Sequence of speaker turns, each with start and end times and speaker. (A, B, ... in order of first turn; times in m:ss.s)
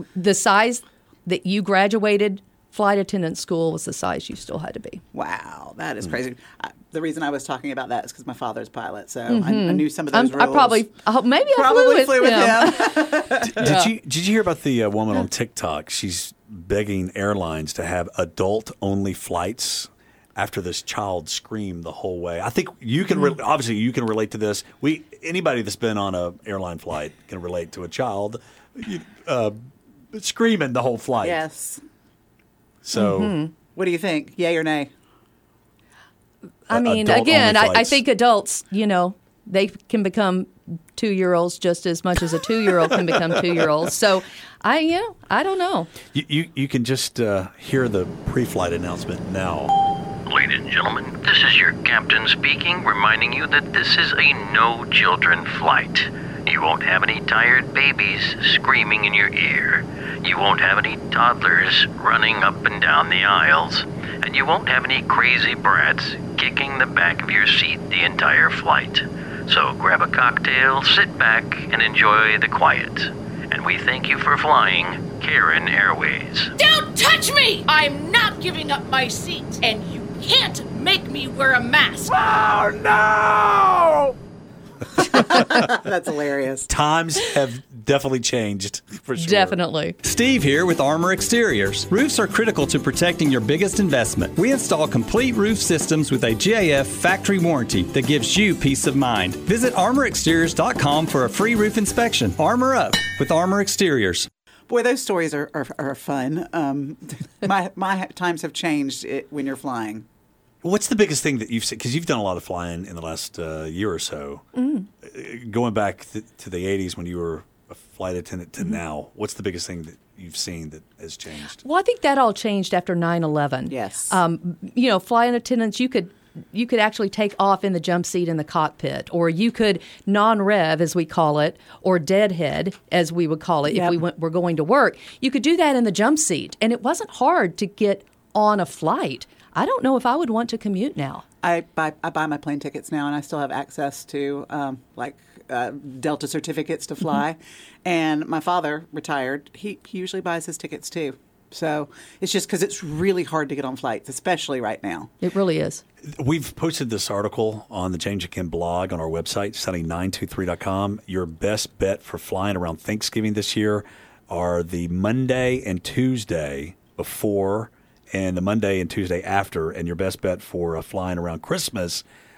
0:00.1-0:05.0 A
0:05.1-0:10.8 B
0:09.3-0:14.0 A
0:11.5-0:13.7 B
0:13.4-0:29.6 C
0:30.1-0:31.4 C
0:31.2-0:31.8 B
0:32.8-0:33.4 C
0:33.0-0:33.5 A
0:33.8-0:34.9 B
0:36.7-0:45.9 A
0:36.7-0:38.0 C
0:46.1-0:49.7 C
0:50.3-1:16.5 D
1:16.6-1:22.1 E
1:22.1-1:24.1 C
1:25.1-1:26.7 B
1:26.7-1:29.6 C
1:29.2-1:30.0 A
1:30.0-1:44.3 F
1:44.7-1:50.0 B
1:50.6-1:54.4 C
1:54.6-1:54.9 A
1:55.0-2:01.6 C
2:01.5-2:21.2 A
2:03.7-2:04.2 B
2:13.7-2:14.0 B
2:21.4-2:35.1 B
2:35.2-2:35.8 A
2:36.2-2:52.0 C